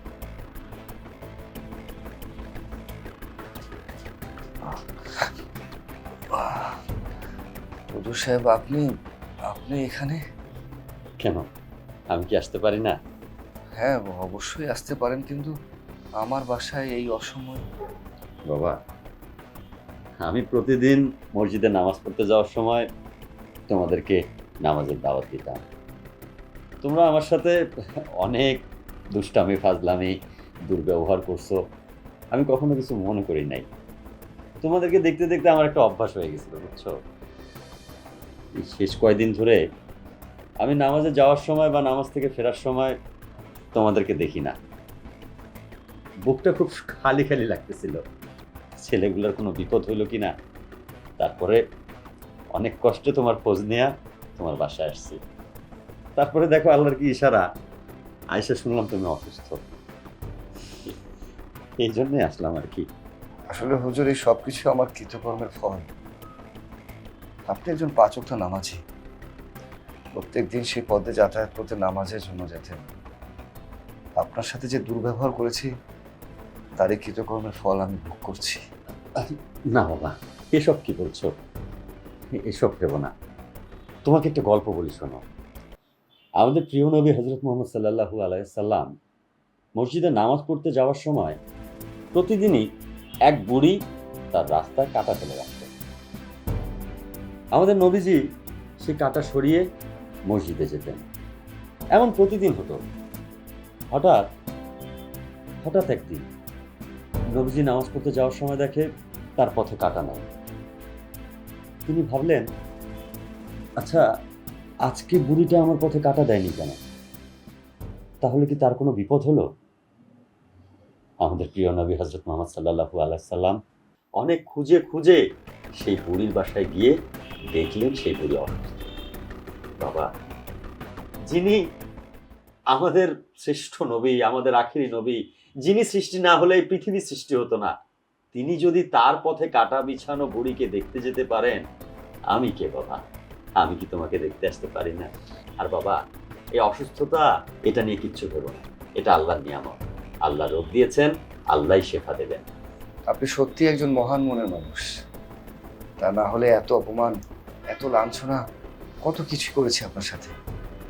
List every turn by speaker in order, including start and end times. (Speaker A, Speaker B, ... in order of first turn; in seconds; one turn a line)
Speaker A: 4.7-5.3
Speaker A: 6.3-6.8
Speaker A: 7.9-8.8
Speaker A: 9.5-10.2
Speaker B: 11.2-11.5
Speaker B: 12.1-13.0
Speaker A: 13.8-15.5
Speaker A: 16.2-17.6
Speaker B: 18.5-18.8
Speaker B: 20.2-22.9
Speaker B: 23.7-25.6
Speaker B: 26.8-27.6
Speaker B: 28.2-28.6
Speaker B: 29.1-30.1
Speaker B: 30.7-31.6
Speaker B: 32.3-33.7
Speaker B: 34.6-36.9
Speaker B: 38.6-39.6
Speaker B: 40.6-42.9
Speaker B: 43.7-44.5
Speaker B: 46.2-48.0
Speaker B: 48.8-50.3
Speaker B: 51.2-51.6
Speaker B: 52.5-55.2
Speaker B: 56.1-57.4
Speaker B: 58.3-59.6
Speaker B: 61.8-62.9
Speaker A: 63.5-65.9
Speaker A: 67.5-68.8
Speaker A: 70.1-72.8
Speaker A: 74.2-75.7
Speaker A: 76.8-78.6
Speaker B: 79.2-81.3
Speaker B: 82.4-83.1
Speaker B: 84.0-85.2
Speaker B: 86.4-88.9
Speaker B: 89.8-91.4
Speaker B: 92.1-92.7
Speaker B: 93.2-93.8
Speaker B: 94.3-95.7
Speaker B: 97.5-98.2
Speaker B: 98.8-99.7
Speaker B: 100.3-101.0
Speaker B: 101.9-102.8
Speaker B: 103.9-104.2
Speaker B: 105.6-106.3
Speaker B: 107.3-110.2
Speaker B: 111.9-112.5
Speaker B: 113.8-114.0
Speaker B: 114.8-116.8
Speaker B: 118.2-119.5
Speaker B: 121.2-123.6
Speaker B: 124.2-125.2
Speaker B: 125.8-126.9
Speaker B: 127.5-128.8
Speaker B: 129.8-130.1
Speaker B: 131.3-131.6
Speaker B: 132.7-137.7
Speaker B: 138.3-141.6
Speaker B: 142.3-143.0
Speaker B: 143.6-145.1
Speaker B: 145.6-146.0
Speaker B: 146.6-152.4
Speaker A: 153.1-154.9
Speaker A: 156.0-157.1
Speaker A: 157.7-158.4
Speaker A: 159.0-160.3